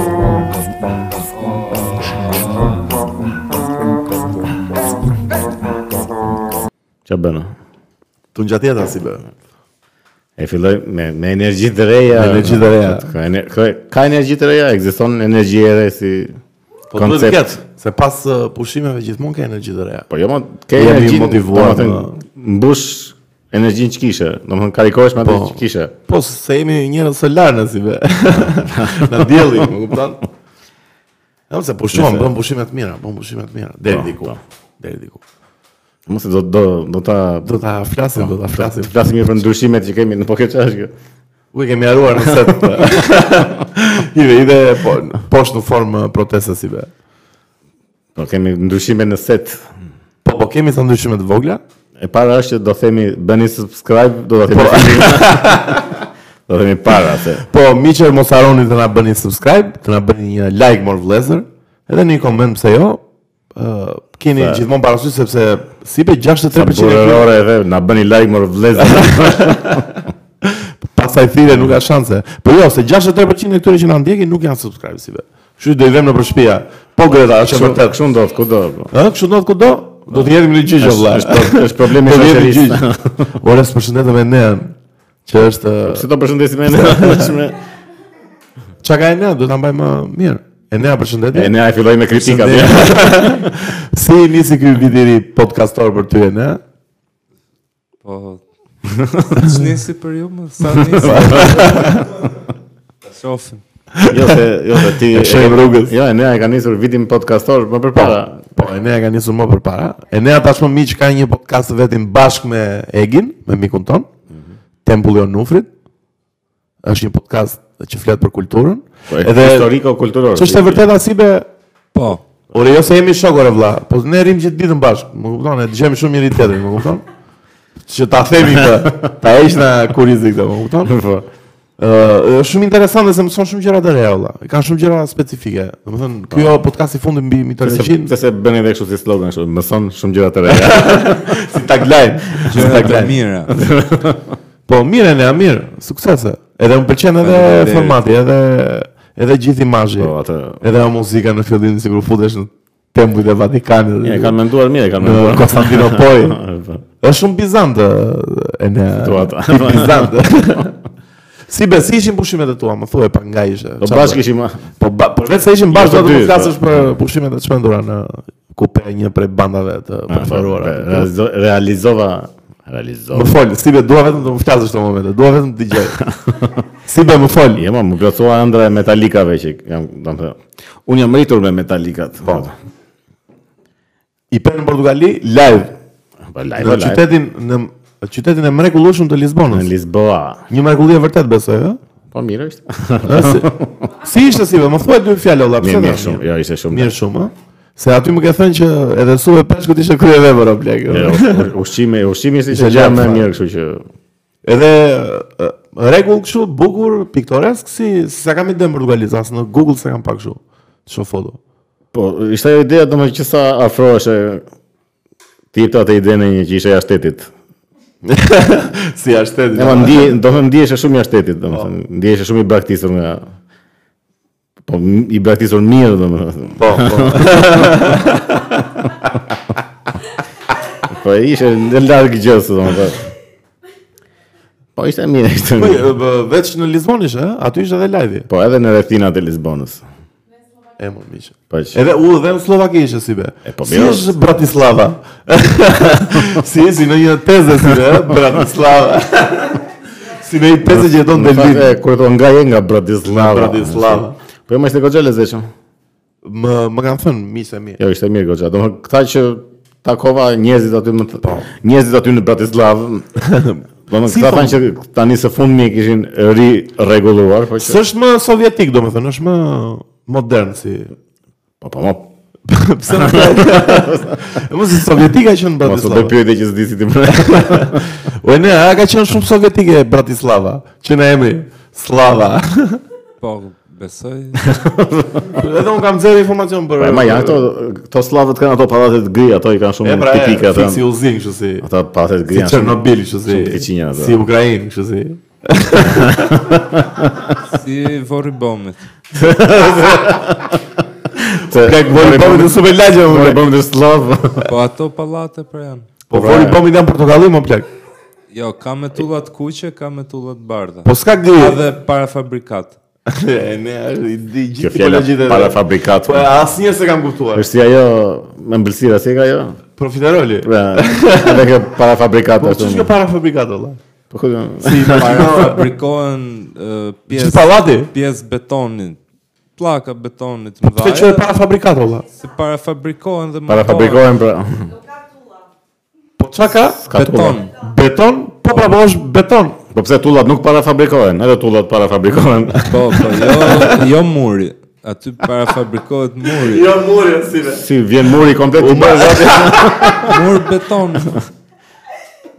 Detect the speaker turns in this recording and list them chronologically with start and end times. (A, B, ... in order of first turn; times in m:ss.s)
0:01.3-0:02.9 A
0:07.1-0:07.5 B
0:08.4-0:09.3 C
0:10.4-0:16.4 B
0:12.1-0:13.1 C
0:16.9-0:20.1 C
0:17.0-0:17.5 B
0:20.1-0:25.9 B
0:20.8-0:22.2 C
0:25.2-0:30.2 C
0:28.4-0:29.7 B
0:31.5-0:35.2 C
0:31.9-0:32.3 B
0:33.9-0:34.4 B
0:36.1-0:37.6 B
0:37.4-0:39.1 C
0:38.2-0:40.9 B
0:41.5-0:46.9 C
0:48.2-0:49.6 B
0:50.2-0:51.6 C
0:52.0-0:56.0 B
0:54.5-0:56.0 C
0:56.5-0:57.4 B
0:57.4-1:03.0 C
1:03.6-1:07.3 C
1:04.4-1:04.6 B
1:06.5-1:09.9 B
1:08.8-1:18.0 C
1:17.4-1:18.9 B
1:18.9-1:22.9 C
1:20.1-1:23.3 B
1:23.4-1:26.1 C
1:25.9-1:27.6 B
1:26.7-1:27.4 C
1:28.8-1:31.6 C
1:31.3-1:33.5 B
1:32.1-1:36.6 C
1:38.0-1:38.4 A
1:38.9-1:39.4 B
1:39.3-1:42.3 A
1:41.0-1:42.1 C
1:43.0-1:43.6 A
1:43.9-1:46.0 C
1:44.1-1:48.7 B
1:48.0-1:54.1 C
1:54.8-1:55.7 C
1:56.8-1:59.7 C
1:59.1-2:00.8 B
2:00.4-2:01.5 C
2:01.9-2:02.2 A
2:02.5-2:07.0 C
2:07.9-2:11.0 C
2:10.9-2:11.3 B
2:11.8-2:18.1 C
2:17.6-2:21.5 B
2:20.5-2:23.2 C
2:22.5-2:23.5 A
2:23.5-2:24.4 B
2:24.7-2:34.4 C
2:27.2-2:28.0 A
2:30.0-2:30.6 B
2:34.0-2:36.8 B
2:35.0-2:36.4 C
2:37.0-2:40.8 C
2:39.0-2:40.1 B
2:41.5-2:44.2 C
2:43.8-2:44.6 B
2:44.8-2:51.1 C
2:45.7-2:46.6 B
2:50.1-2:53.3 B
2:53.1-2:56.1 C
2:56.8-2:57.7 C
2:57.6-3:02.5 B
3:04.3-3:05.8 C
3:06.3-3:07.0 B
3:06.6-3:09.7 C
3:09.5-3:10.4 B
3:10.5-3:11.8 C
3:12.1-3:13.7 B
3:13.1-3:21.5 C
3:15.6-3:17.0 B
3:20.9-3:23.8 B
3:22.5-3:23.3 C
3:24.4-3:31.4 C
3:31.9-3:34.4 B
3:35.5-3:37.3 B
3:38.0-3:40.2 C
3:39.5-3:43.2 B
3:44.6-3:48.2 B
3:46.6-3:48.6 C
3:50.8-3:53.1 B
3:54.8-3:55.9 B
3:55.6-3:58.3 C
3:58.3-3:59.8 B
4:00.8-4:11.8 C
4:01.5-4:01.8 B
4:03.5-4:04.2 B
4:06.0-4:06.4 B
4:10.7-4:15.5 B
4:13.1-4:14.2 C
4:16.2-4:17.8 C
4:17.8-4:23.1 B
4:23.2-4:24.6 C
4:23.9-4:27.8 B
4:27.6-4:30.9 C
4:31.6-4:32.1 B
4:32.5-4:36.1 C
4:33.0-4:34.2 B
4:35.6-4:37.9 B
4:37.1-4:42.8 C
4:43.2-4:44.6 A
4:44.4-4:45.4 B
4:45.3-4:47.5 C
4:46.8-4:50.8 B
4:49.8-4:51.7 C
4:51.6-4:54.2 B
4:52.3-4:56.6 C
4:56.0-4:57.1 B
4:57.4-4:58.8 A
4:59.1-5:04.5 B
5:01.2-5:03.4 C
5:04.4-5:05.9 A
5:06.1-5:07.7 C
5:06.1-5:06.6 B
5:08.3-5:12.8 A
5:10.8-5:11.6 C
5:13.1-5:17.5 C
5:14.6-5:16.3 B
5:17.4-5:19.6 B
5:19.8-5:21.5 C
5:20.4-5:22.9 B
5:22.4-5:23.8 C
5:24.1-5:25.3 B
5:24.6-5:25.7 C
5:24.8-5:29.0 A
5:27.1-5:27.9 C
5:29.6-5:31.2 A
5:30.6-5:32.1 C
5:32.2-5:34.0 A
5:33.5-5:34.8 B
5:36.2-5:36.8 C
5:36.8-5:37.4 B
5:36.9-5:37.5 A
5:37.6-5:39.6 C
5:39.7-5:43.1 B
5:42.6-5:46.7 A
5:42.9-5:43.8 C
5:46.2-5:47.7 C
5:47.5-5:50.2 B
5:48.6-5:50.2 C
5:50.0-5:51.2 A